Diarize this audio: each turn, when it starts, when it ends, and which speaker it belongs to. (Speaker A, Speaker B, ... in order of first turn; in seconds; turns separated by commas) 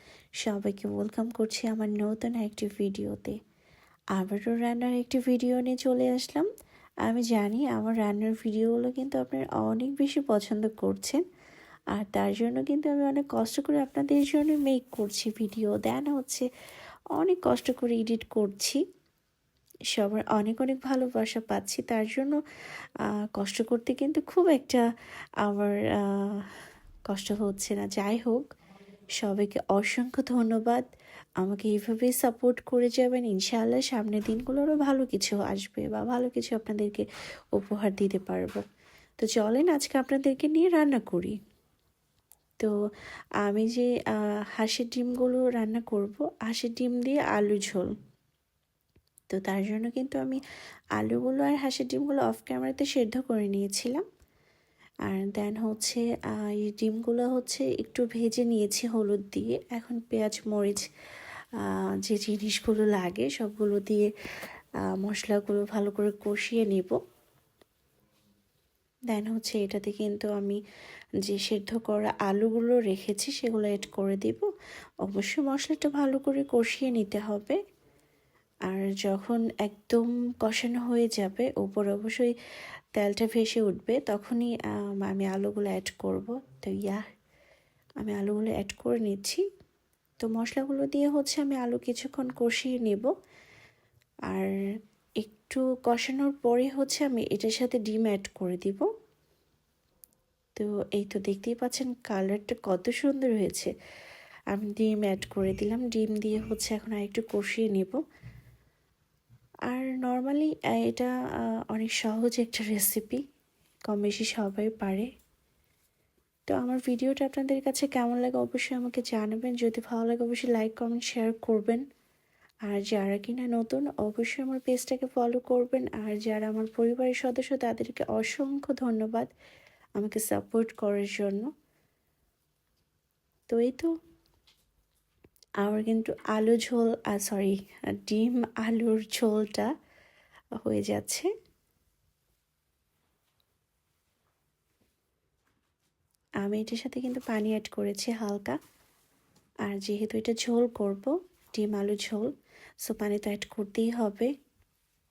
Speaker A: 0.4-3.4, Speaker A: 4.1-6.5, Speaker A: 7.0-11.2, Speaker A: 11.9-16.5, Speaker A: 17.2-18.8, Speaker A: 19.9-22.4, Speaker A: 23.3-24.8, Speaker A: 25.4-26.5, Speaker A: 27.1-28.5, Speaker A: 29.2-30.8, Speaker A: 31.4-38.6, Speaker A: 39.2-41.4, Speaker A: 43.4-47.9, Speaker A: 49.3-50.4, Speaker A: 51.0-54.0, Speaker A: 55.1-60.9, Speaker A: 61.6-64.1, Speaker A: 64.9-67.0, Speaker A: 69.1-70.6, Speaker A: 71.3-74.5, Speaker A: 75.0-77.6, Speaker A: 78.7-82.3, Speaker A: 83.0-87.0, Speaker A: 88.0-89.4, Speaker A: 90.2-93.1, Speaker A: 95.2-98.9, Speaker A: 100.6-103.7, Speaker A: 104.5-108.0, Speaker A: 109.7-111.1, Speaker A: 111.7-113.2, Speaker A: 113.9-115.1, Speaker A: 116.5-121.8, Speaker A: 122.7-129.3, Speaker A: 130.0-131.5, Speaker A: 133.5-133.9, Speaker A: 135.6-139.7, Speaker A: 140.6-141.3, Speaker A: 146.4-148.6, Speaker A: 149.7-152.3, Speaker A: 152.8-154.3